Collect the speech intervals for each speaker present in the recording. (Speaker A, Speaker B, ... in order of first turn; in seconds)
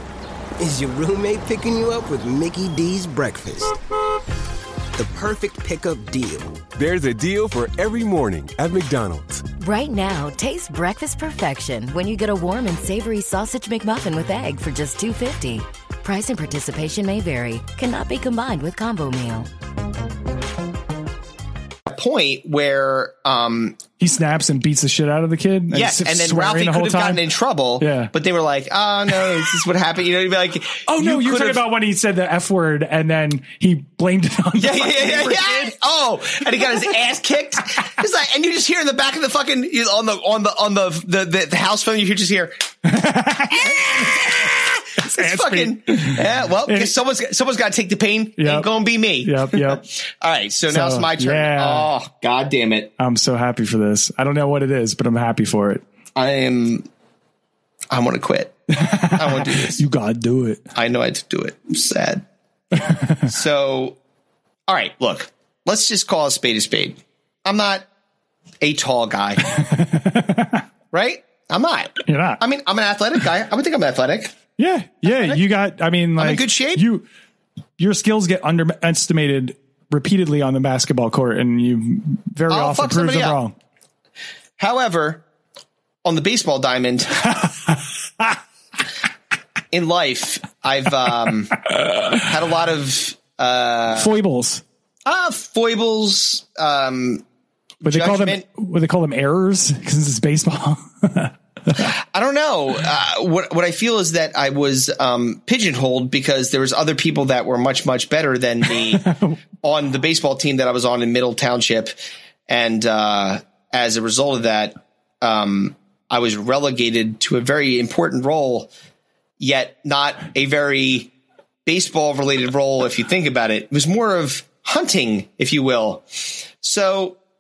Speaker A: 0.6-3.8, 5.0-6.7
Speaker B: 6.7-9.5
Speaker C: 9.6-19.5
Speaker D: 21.9-23.8, 25.7-31.7, 34.6-42.6, 43.5-52.9, 56.1-56.9, 57.9-59.8, 60.8-62.2, 63.2-64.0, 64.7-67.9, 68.6-69.5, 70.9-74.3, 75.0-75.4, 76.2-76.8, 82.5-83.4, 84.6-85.2, 86.0-87.4, 89.7-94.2, 95.0-97.2, 97.8-98.4, 101.8-109.1, 109.6-111.9, 112.5-118.7, 119.4-121.1, 121.7-127.2
Speaker E: 24.0-27.2, 27.8-28.1, 30.9-35.7, 42.8-44.4, 45.0-46.9, 48.4-49.8, 50.7-51.9, 53.0-55.8, 58.7-60.6, 62.8-63.3, 69.5-70.6, 72.1-72.4, 74.6-77.1, 77.8-83.5, 94.0-94.6, 97.8-101.3, 109.0-109.4